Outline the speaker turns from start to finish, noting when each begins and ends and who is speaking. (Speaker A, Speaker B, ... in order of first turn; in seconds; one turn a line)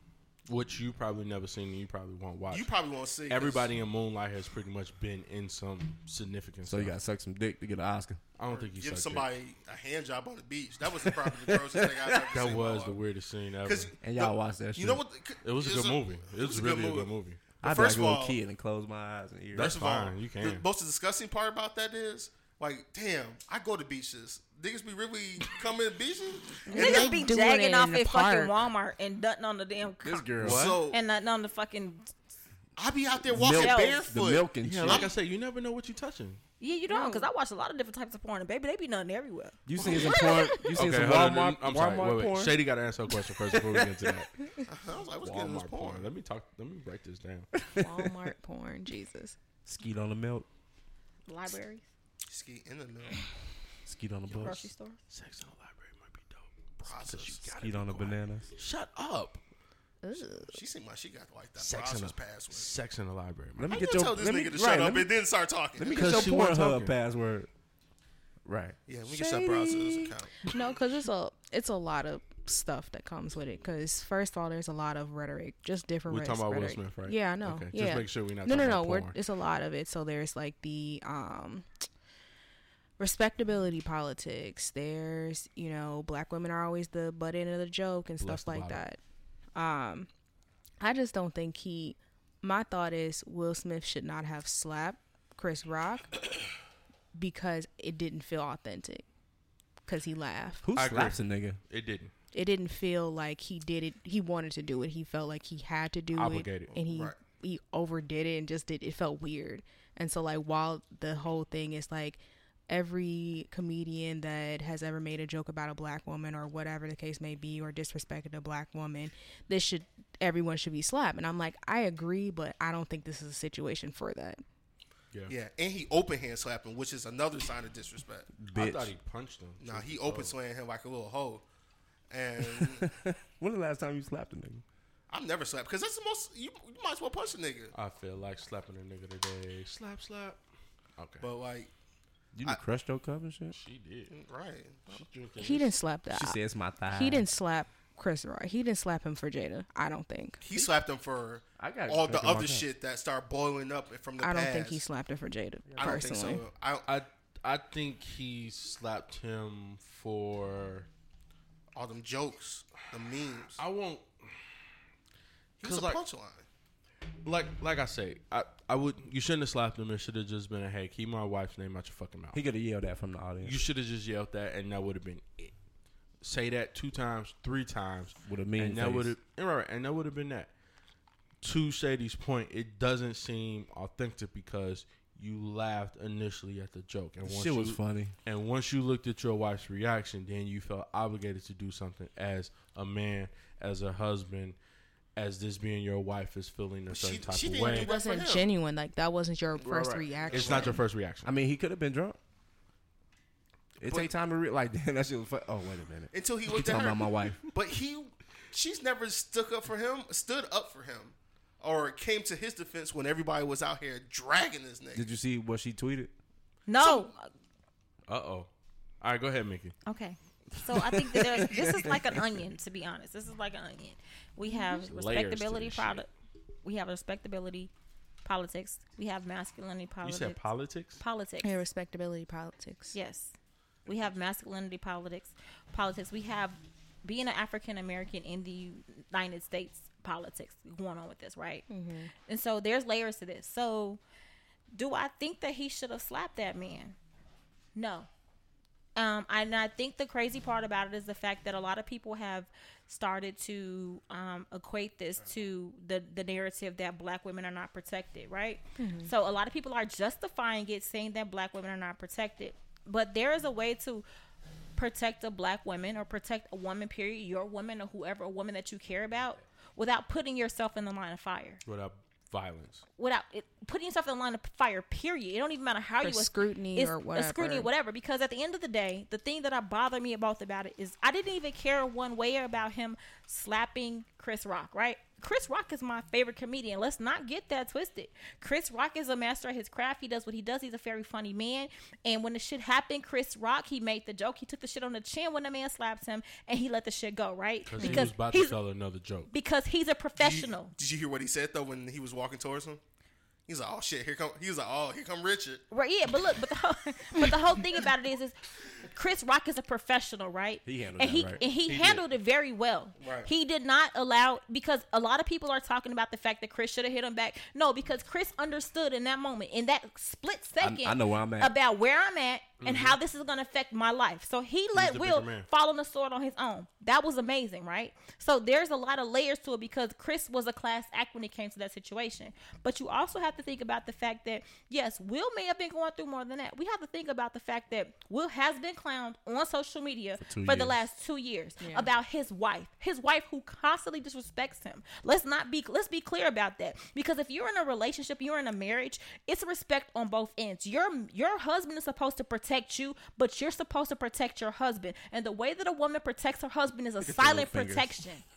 Speaker A: 0.5-2.7
Speaker B: 2.5-3.7
Speaker A: 3.3-6.9
Speaker C: 6.6-8.2
Speaker A: 8.3-9.3
Speaker B: 8.5-13.0
Speaker C: 10.9-12.4
Speaker A: 12.3-13.9
Speaker B: 13.6-18.4
Speaker C: 14.0-15.0
Speaker A: 15.4-17.5
Speaker C: 17.6-19.9
Speaker A: 19.5-20.6
Speaker B: 19.6-27.3
Speaker D: 26.7-28.6
Speaker E: 26.7-32.1
Speaker C: 30.0-30.8
Speaker A: 30.4-30.8
Speaker B: 30.4-31.0
Speaker B: 32.8-35.1
Speaker C: 33.3-35.1
Speaker E: 33.4-34.1
Speaker A: 34.6-36.4
Speaker E: 36.6-40.5
Speaker D: 36.9-37.3
Speaker C: 39.6-42.6
Speaker A: 40.7-44.3
Speaker C: 43.4-44.2
Speaker B: 44.7-46.1
Speaker A: 45.2-47.5
Speaker D: 47.7-49.4
Speaker C: 49.6-50.5
Speaker E: 51.3-51.8
Speaker B: 52.3-53.3
Speaker C: 53.9-54.7
Speaker E: 54.4-55.0
Speaker A: 55.1-59.4
Speaker B: 56.8-57.6
Speaker C: 57.6-58.5
Speaker D: 60.0-60.6
Speaker B: 60.5-62.7
Speaker A: 61.6-63.8
Speaker C: 63.5-65.1
Speaker B: 63.7-66.4
Speaker C: 65.8-67.5
Speaker A: 65.9-66.9
Speaker C: 68.4-70.1
Speaker B: 68.9-70.5
Speaker D: 70.4-81.7
Speaker A: 76.1-79.2
Speaker D: 83.0-89.0
Speaker A: 88.2-88.8
Speaker D: 89.5-90.1
Speaker D: 90.8-96.3
Speaker D: 97.1-99.0
Speaker D: 99.8-100.7
Speaker C: 100.6-101.6
Speaker A: 100.8-102.1
Speaker D: 102.3-124.4
Speaker A: 106.1-106.8
Speaker B: 106.9-107.1
Speaker B: 125.3-128.3
Speaker C: 128.4-128.9
Speaker A: 128.5-130.3
Speaker B: 129.6-131.4
Speaker B: 132.1-132.9
Speaker C: 132.4-134.6
Speaker B: 135.1-137.7
Speaker A: 137.7-140.4
Speaker A: 141.0-141.3
Speaker B: 141.2-141.7
Speaker C: 142.3-143.6
Speaker A: 143.5-144.1
Speaker B: 144.1-145.1
Speaker A: 144.9-145.7
Speaker D: 145.4-150.7
Speaker C: 146.1-147.2
Speaker B: 150.4-154.8
Speaker C: 151.6-152.7
Speaker D: 154.2-156.4
Speaker C: 155.7-156.0
Speaker B: 155.8-156.9
Speaker A: 156.8-160.9
Speaker B: 161.7-163.6
Speaker A: 163.6-164.4
Speaker B: 165.6-166.4
Speaker A: 165.6-166.0
Speaker A: 167.2-172.4
Speaker C: 172.3-173.6
Speaker A: 173.4-175.5
Speaker A: 176.2-180.5
Speaker C: 178.2-179.1
Speaker A: 181.4-194.6
Speaker C: 187.2-188.1
Speaker A: 195.2-197.9
Speaker B: 196.9-198.5
Speaker D: 197.6-200.8
Speaker A: 199.6-201.3
Speaker B: 200.1-200.8
Speaker C: 201.2-202.2
Speaker C: 203.8-207.4
Speaker B: 203.8-204.1
Speaker B: 206.1-215.1
Speaker C: 214.9-216.1
Speaker E: 216.7-217.3
Speaker A: 218.1-218.5
Speaker A: 219.0-219.7
Speaker E: 219.8-226.1
Speaker C: 220.7-222.2
Speaker D: 224.5-224.8
Speaker A: 224.8-226.0
Speaker E: 226.6-227.7
Speaker E: 228.2-230.4
Speaker A: 230.0-231.0
Speaker E: 231.0-231.6
Speaker D: 231.4-232.9
Speaker E: 232.9-233.3
Speaker E: 233.8-241.6
Speaker D: 241.7-242.1
Speaker E: 242.2-244.0
Speaker E: 244.7-246.9
Speaker E: 247.7-248.1
Speaker E: 248.9-264.0
Speaker D: 258.8-259.1
Speaker E: 264.8-271.6
Speaker A: 271.6-272.8
Speaker E: 273.0-298.6
Speaker D: 276.0-277.7
Speaker A: 297.6-299.3
Speaker D: 297.8-298.1
Speaker E: 299.3-300.7
Speaker B: 300.2-302.8
Speaker B: 303.5-305.6
Speaker E: 305.7-358.2
Speaker C: 310.6-311.4
Speaker A: 311.6-312.0
Speaker B: 313.0-313.3
Speaker C: 320.6-321.5
Speaker A: 322.6-323.0
Speaker A: 324.7-325.5
Speaker A: 340.2-340.8
Speaker D: 341.6-341.9
Speaker C: 357.0-357.9